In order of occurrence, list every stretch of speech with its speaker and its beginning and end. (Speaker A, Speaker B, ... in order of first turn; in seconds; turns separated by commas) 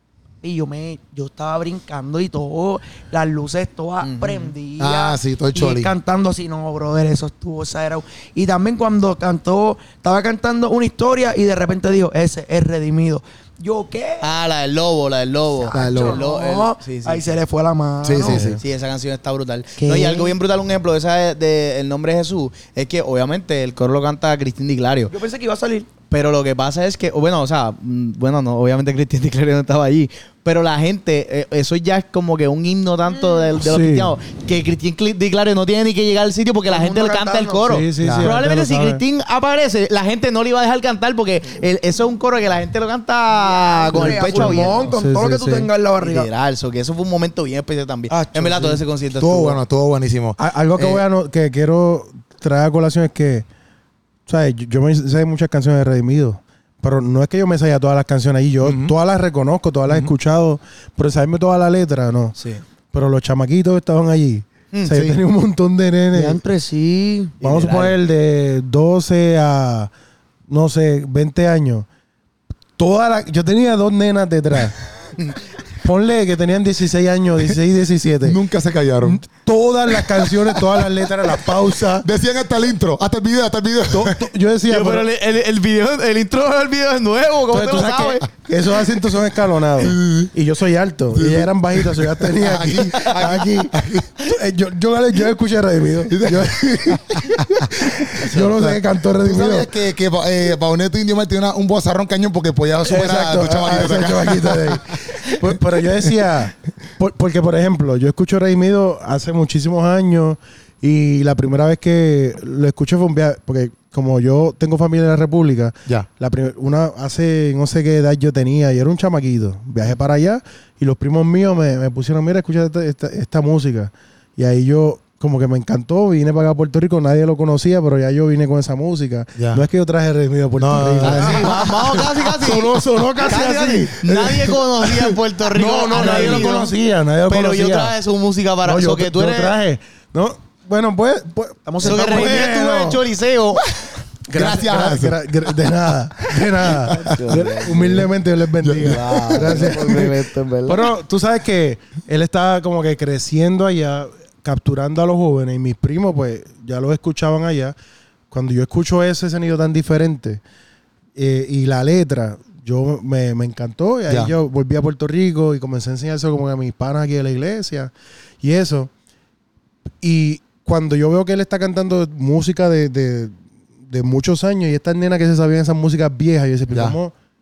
Speaker A: 0.4-14.3, Speaker B: 4.0-4.5, Speaker C: 4.8-5.9, Speaker B: 14.2-17.3, Speaker A: 15.6-18.4, Speaker C: 15.7-16.2, Speaker C: 18.0-18.6, Speaker D: 18.1-18.6, Speaker B: 18.5-25.1, Speaker A: 19.8-20.4, Speaker A: 25.1-25.9, Speaker B: 26.1-44.9, Speaker A: 33.1-33.5, Speaker D: 33.6-34.1, Speaker A: 36.7-37.7, Speaker D: 37.6-39.0, Speaker C: 38.0-38.3, Speaker A: 43.3-46.3, Speaker D: 43.9-45.7, Speaker B: 46.0-49.6, Speaker D: 48.1-48.8, Speaker C: 49.2-50.4, Speaker D: 50.4-53.5, Speaker B: 50.8-51.0, Speaker D: 54.3-62.4, Speaker C: 58.6-58.9, Speaker C: 59.9-60.1, Speaker B: 62.4-62.6, Speaker D: 62.9-66.4, Speaker C: 64.9-65.2, Speaker A: 66.1-67.3, Speaker B: 67.4-68.0, Speaker D: 67.4-69.9, Speaker D: 70.5-71.8, Speaker D: 72.8-74.8, Speaker D: 75.8-78.4, Speaker C: 78.2-79.2, Speaker D: 79.0-82.1, Speaker C: 80.1-80.6, Speaker C: 81.3-84.2, Speaker D: 83.9-85.1, Speaker B: 84.7-88.2, Speaker D: 87.5-99.7, Speaker C: 89.8-90.3, Speaker C: 91.1-94.1, Speaker C: 96.1-105.5, Speaker D: 102.8-137.9, Speaker C: 129.4-129.6, Speaker C: 130.6-131.9, Speaker B: 131.0-136.7, Speaker A: 136.0-136.5, Speaker B: 137.3-139.6, Speaker D: 138.6-143.0, Speaker A: 141.7-142.5, Speaker B: 141.8-143.6, Speaker C: 143.6-145.2, Speaker D: 144.3-157.8, Speaker C: 146.3-147.9, Speaker B: 146.8-148.1, Speaker C: 148.6-150.1, Speaker B: 148.8-150.9, Speaker D: 158.3-160.4, Speaker D: 161.2-168.9, Speaker C: 164.1-164.3, Speaker D: 170.0-177.1, Speaker C: 176.7-177.0